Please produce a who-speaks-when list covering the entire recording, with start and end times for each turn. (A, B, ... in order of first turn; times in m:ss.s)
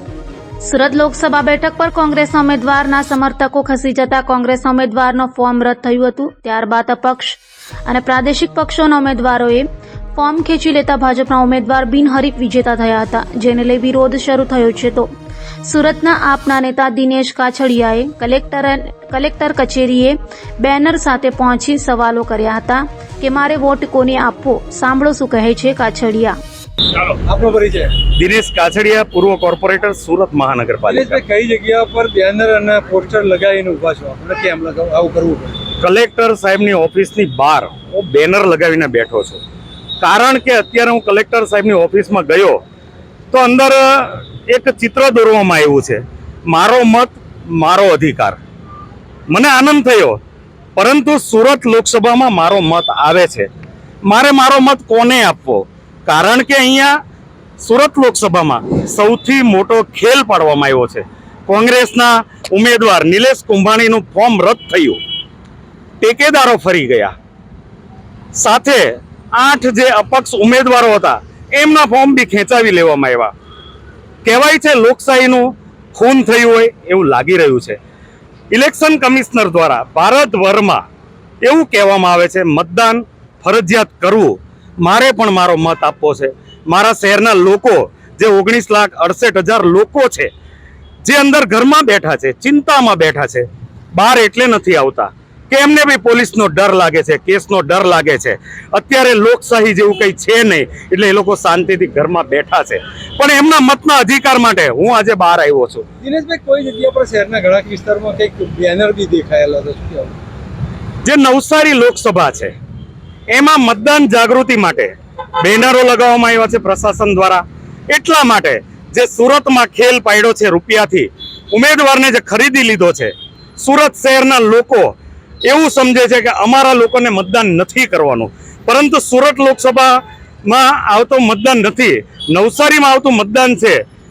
0:00.6-0:15.1 A
0:15.6-0:26.4 A
0:27.2-0:28.0 B
0:28.0-0:31.2 C
0:30.9-0:35.6 B
0:35.8-0:39.4 C
0:40.0-0:42.6 C
0:43.3-0:48.4 C
0:49.3-0:50.2 C
0:50.8-0:53.5 C
0:54.1-0:56.9 C
0:57.6-1:05.0 C
1:06.0-1:07.1 C
1:08.3-1:13.3 C
1:14.2-1:17.8 C
1:18.5-1:20.8 C
1:21.4-1:30.3 C
1:31.0-1:45.8 C
1:46.0-1:50.1 B
1:51.0-1:52.5 C
1:53.3-2:04.9 C
2:05.5-2:13.8 C